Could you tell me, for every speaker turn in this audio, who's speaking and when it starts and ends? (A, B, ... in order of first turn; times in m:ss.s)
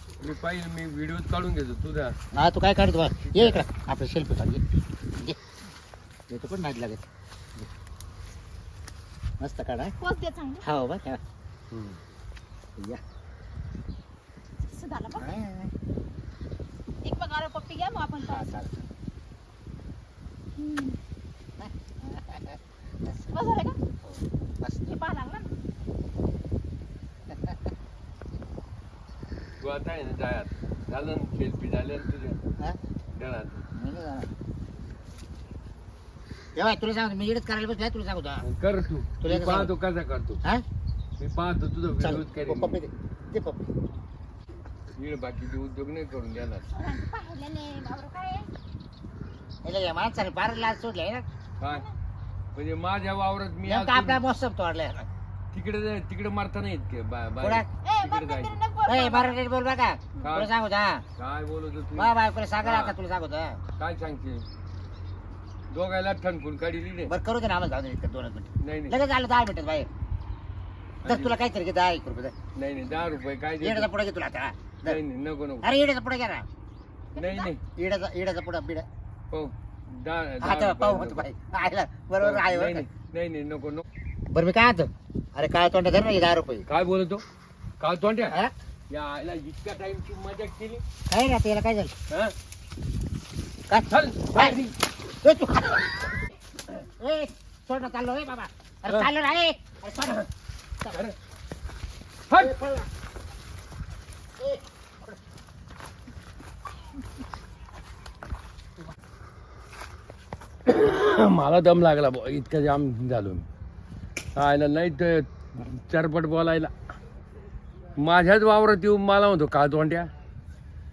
0:00.2-0:02.2 A
0:02.3-0:04.6 B
0:03.2-0:03.6 A
0:06.3-0:07.7 B
0:09.4-0:09.9 B
0:10.0-0:10.6 C
0:10.6-0:11.2 B
0:11.7-0:12.0 A
0:14.7-0:15.3 C
0:15.2-0:15.7 B
0:17.0-0:18.5 C
0:18.2-0:18.9 B
0:20.6-0:21.0 C
0:21.6-0:23.1 B
0:23.2-0:23.8 C
0:24.0-0:25.0 B
0:24.9-0:25.5 C
0:27.3-0:27.6 B
0:29.6-0:32.4 A
0:33.1-0:33.6 A
0:33.7-0:34.3 B
0:36.6-0:38.4 B
0:38.4-0:40.4 A
0:39.2-0:39.7 B
0:41.2-0:42.8 A
0:42.0-0:43.7 B
0:44.9-0:46.7 A
0:46.7-0:48.5 C
0:49.6-0:51.2 B
0:51.6-0:51.8 A
0:52.5-0:54.2 A
0:53.6-0:55.1 B
0:55.5-0:58.6 A
0:57.4-0:57.6 B
0:57.8-0:59.4 C
0:58.9-1:01.0 B
1:00.2-1:00.5 A
1:01.2-1:02.9 A
1:02.0-1:03.6 B
1:03.8-1:04.4 A
1:05.7-1:07.1 A
1:07.1-1:09.9 B
1:08.6-1:09.0 A
1:11.0-1:11.4 A
1:11.0-1:12.3 B
1:12.6-1:13.9 A
1:13.6-1:15.0 B
1:14.8-1:15.7 A
1:15.6-1:16.4 B
1:17.1-1:17.5 C
1:17.2-1:17.6 A
1:17.8-1:18.9 B
1:19.3-1:21.2 A
1:20.4-1:22.9 B
1:22.2-1:23.8 A
1:24.3-1:26.7 B
1:26.7-1:27.2 A
1:27.8-1:28.4 A
1:28.9-1:30.8 A
1:31.1-1:31.9 B
1:33.7-1:34.7 B
1:33.9-1:34.7 A
1:35.2-1:36.1 B
1:36.8-1:40.2 B
1:40.9-1:41.2 A
1:42.3-1:42.5 A
1:42.4-1:42.9 B
1:44.4-1:45.2 B
1:50.6-1:53.5 A
1:54.3-1:56.7 A
1:58.0-2:00.1 A